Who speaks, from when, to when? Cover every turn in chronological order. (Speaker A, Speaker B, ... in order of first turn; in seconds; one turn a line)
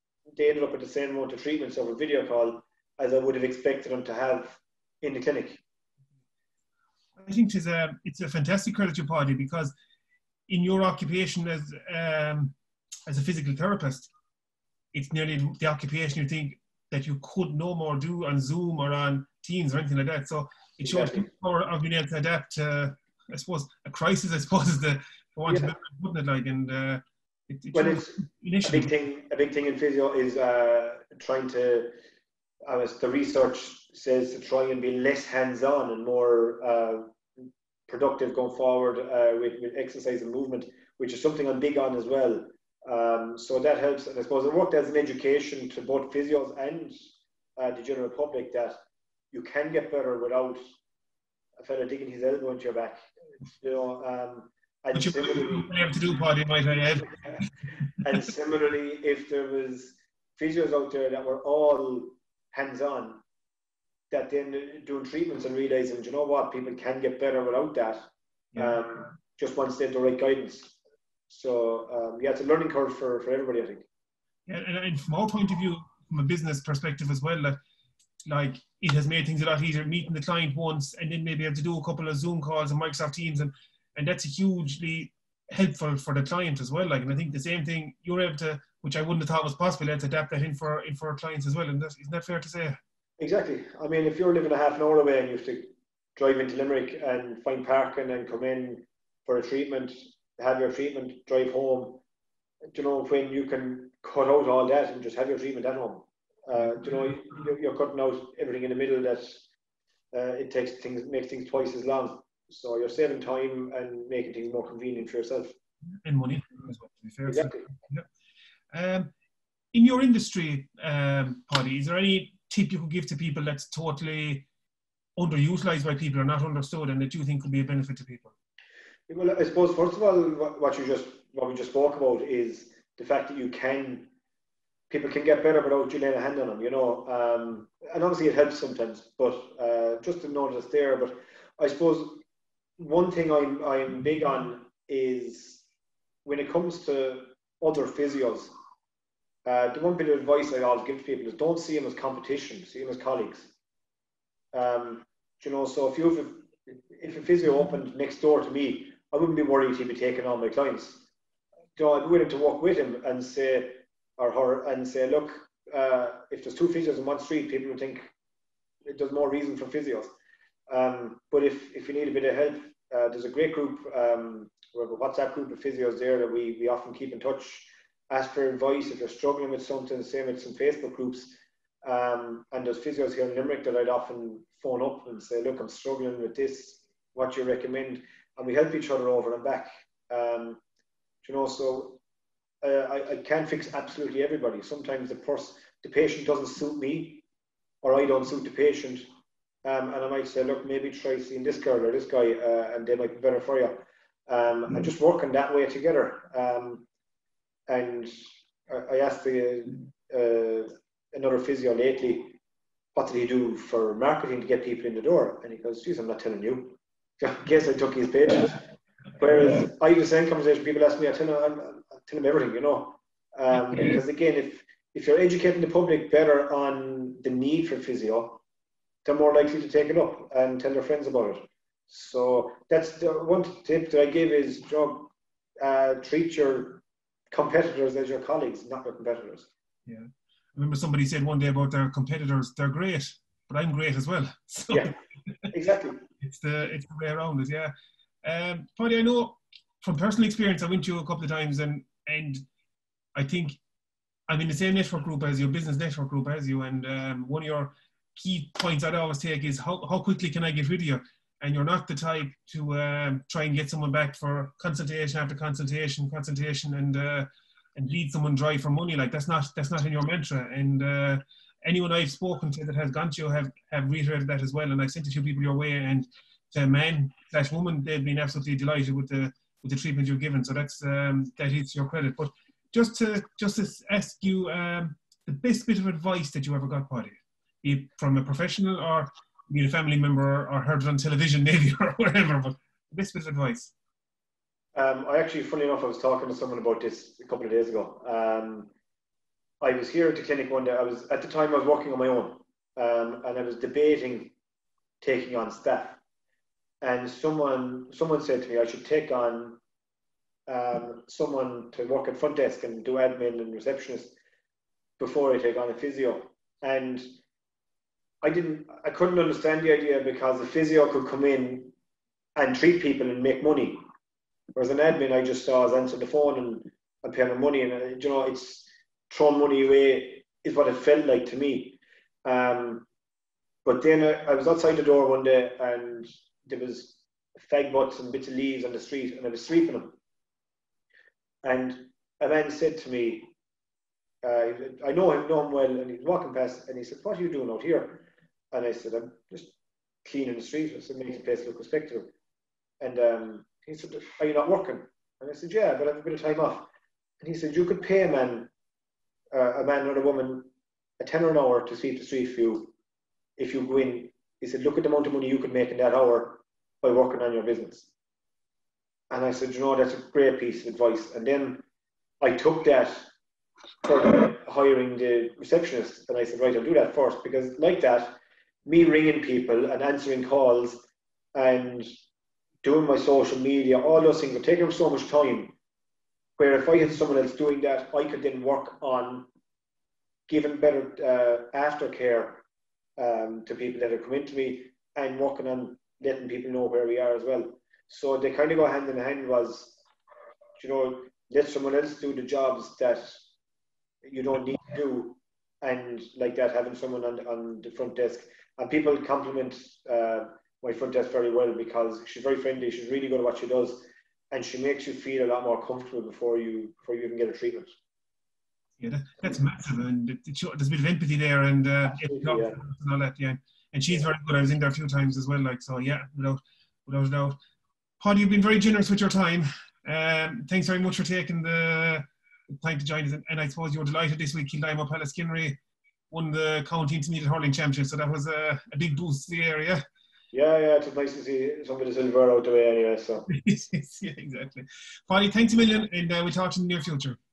Speaker A: 0.3-5.6
Speaker B: 7.2-9.7
Speaker B: 10.5-12.6
Speaker B: 13.1-14.1
Speaker B: 14.9-28.9
Speaker A: 20.8-21.2
Speaker A: 25.4-25.7
Speaker A: 27.7-31.9
Speaker A: 32.6-37.1
Speaker A: 37.9-47.0
Speaker A: 47.6-48.7
Speaker A: 49.3-50.6
Speaker A: 51.6-55.7
Speaker B: 54.9-57.4
Speaker A: 57.0-57.4
Speaker A: 58.0-63.2
Speaker A: 64.1-68.0
Speaker B: 68.5-68.8
Speaker A: 68.5-70.8
Speaker A: 71.3-73.9
Speaker B: 74.5-77.5
Speaker B: 78.3-92.8
Speaker A: 93.2-102.0
Speaker A: 102.7-109.5
Speaker A: 110.1-115.5
Speaker B: 116.0-118.0
Speaker A: 117.3-117.7
Speaker B: 118.7-119.1
Speaker B: 119.7-124.5
Speaker B: 125.2-128.3
Speaker A: 129.1-134.1
Speaker A: 134.9-142.2
Speaker A: 142.8-145.7
Speaker A: 146.2-148.5
Speaker A: 149.4-153.5
Speaker A: 154.5-161.1
Speaker A: 161.8-168.1
Speaker A: 168.8-170.1
Speaker A: 170.7-190.6
Speaker A: 191.2-192.0
Speaker A: 192.6-197.2
Speaker A: 197.8-199.0
Speaker A: 199.6-206.8
Speaker A: 207.7-212.4
Speaker A: 212.9-218.6
Speaker A: 219.2-228.4
Speaker A: 229.0-239.5
Speaker B: 239.8-244.9
Speaker A: 245.5-246.0
Speaker B: 246.2-247.7
Speaker B: 248.2-252.4
Speaker B: 253.2-253.6
Speaker B: 254.3-293.7
Speaker A: 294.7-298.7
Speaker A: 299.6-304.3
Speaker A: 305.0-306.0
Speaker A: 306.8-309.6
Speaker A: 310.5-314.2
Speaker A: 315.0-317.1
Speaker A: 318.2-321.7
Speaker A: 322.4-323.8
Speaker A: 324.5-332.9
Speaker A: 333.6-339.9
Speaker A: 341.4-343.3
Speaker A: 344.2-352.1
Speaker A: 352.8-356.7
Speaker A: 357.2-358.5
Speaker A: 359.3-362.7
Speaker A: 363.4-367.9
Speaker A: 369.1-371.6
Speaker A: 372.2-373.1
Speaker A: 373.8-378.1
Speaker A: 378.6-381.9
Speaker A: 382.6-385.5
Speaker A: 386.4-389.3
Speaker A: 390.3-392.4
Speaker A: 393.0-399.8
Speaker A: 400.6-403.3
Speaker A: 404.0-417.7
Speaker B: 418.8-427.4
Speaker A: 421.9-422.6
Speaker B: 428.0-432.1
Speaker B: 432.6-435.6
Speaker B: 436.1-439.8
Speaker A: 440.3-443.3
Speaker B: 443.3-447.2